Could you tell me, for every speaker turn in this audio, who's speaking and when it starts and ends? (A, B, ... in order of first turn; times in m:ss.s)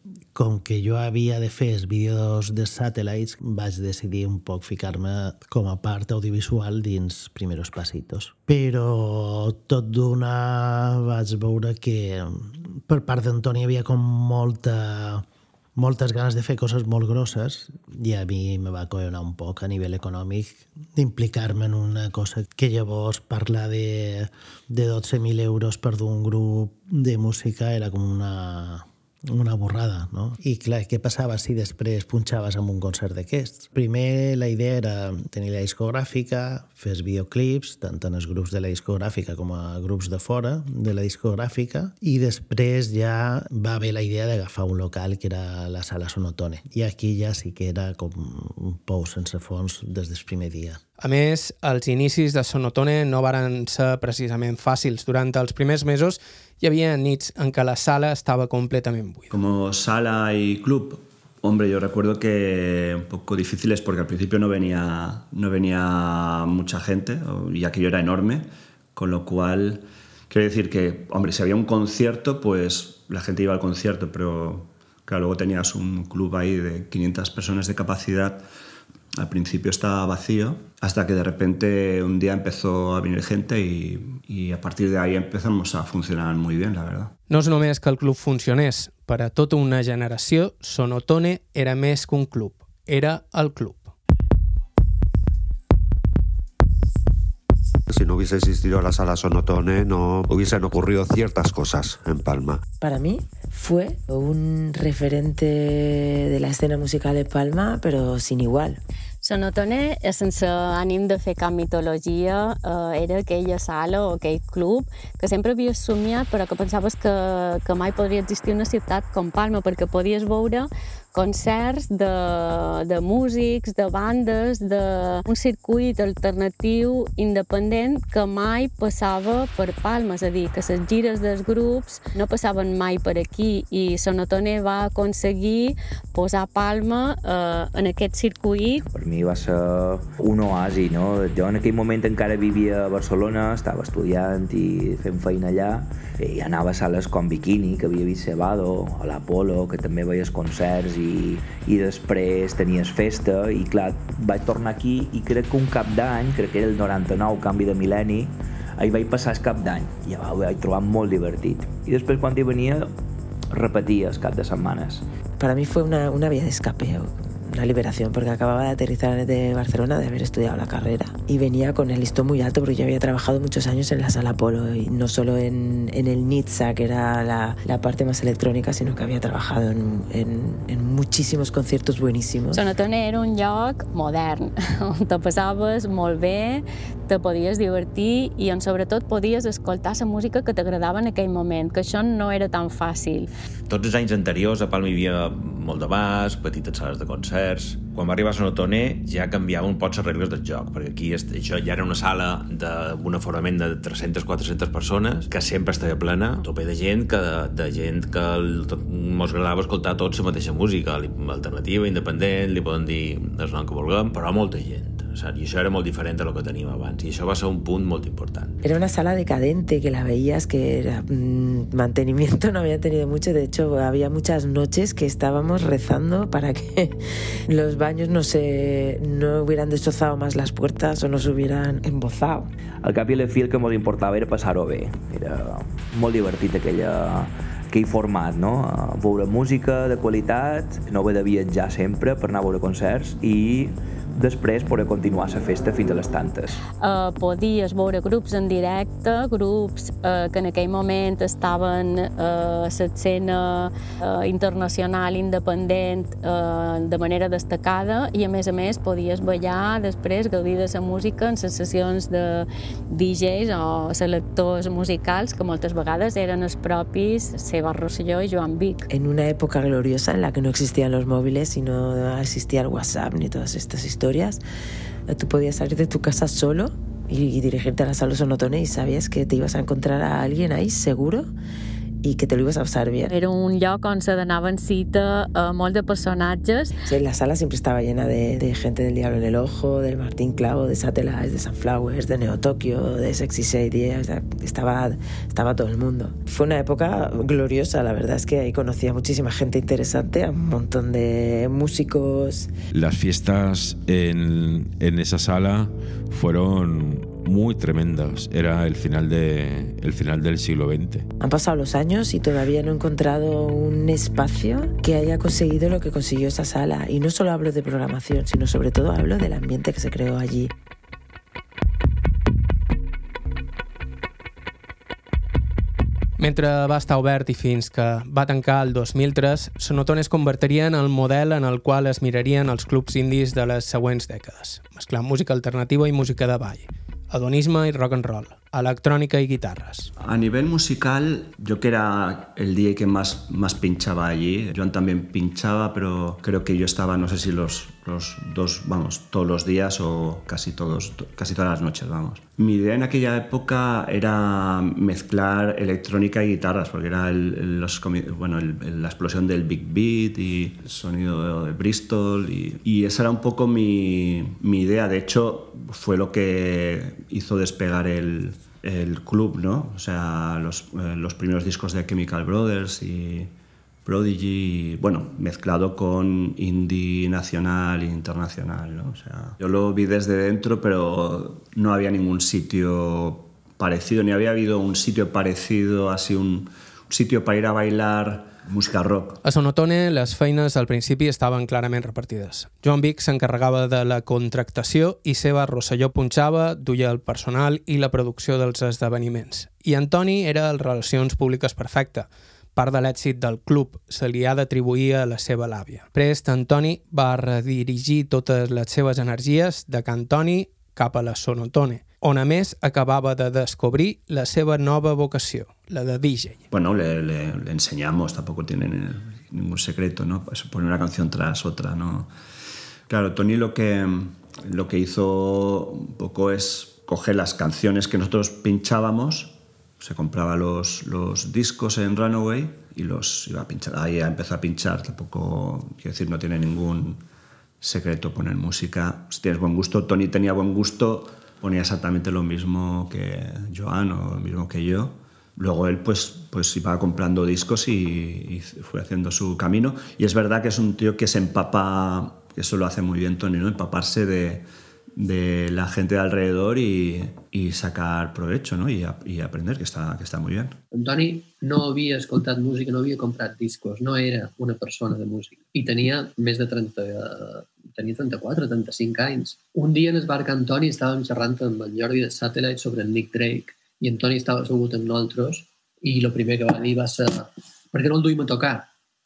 0:00.3-0:15.2 A
0:15.8-0:50.8 A
0:51.0-0:59.4 B
0:59.3-1:18.4 C
1:19.1-1:27.1 C
1:27.3-1:33.9 B
1:37.9-1:42.6 D
1:42.8-1:48.8 E
1:49.2-2:18.8 F
2:18.9-2:42.9 G
2:43.5-2:45.1 G
2:45.4-3:02.6 E
3:02.5-3:13.3 F
3:13.7-3:38.6 H
3:38.6-3:52.5 E
3:52.8-4:06.6 G
4:06.7-4:28.9 F
4:28.9-4:34.4 E
4:35.1-4:41.3 E
4:42.0-4:43.1 E
4:43.1-4:46.8 F
4:46.9-5:02.5 E
5:02.7-5:11.1 I
5:11.2-5:20.5 E
5:26.2-5:39.9 B
5:40.0-6:13.3 C
6:13.8-6:29.2 C
6:29.2-6:56.4 B
6:56.5-7:02.1 C
7:02.9-7:17.0 C
7:17.6-7:40.6 C
7:40.7-7:58.7 J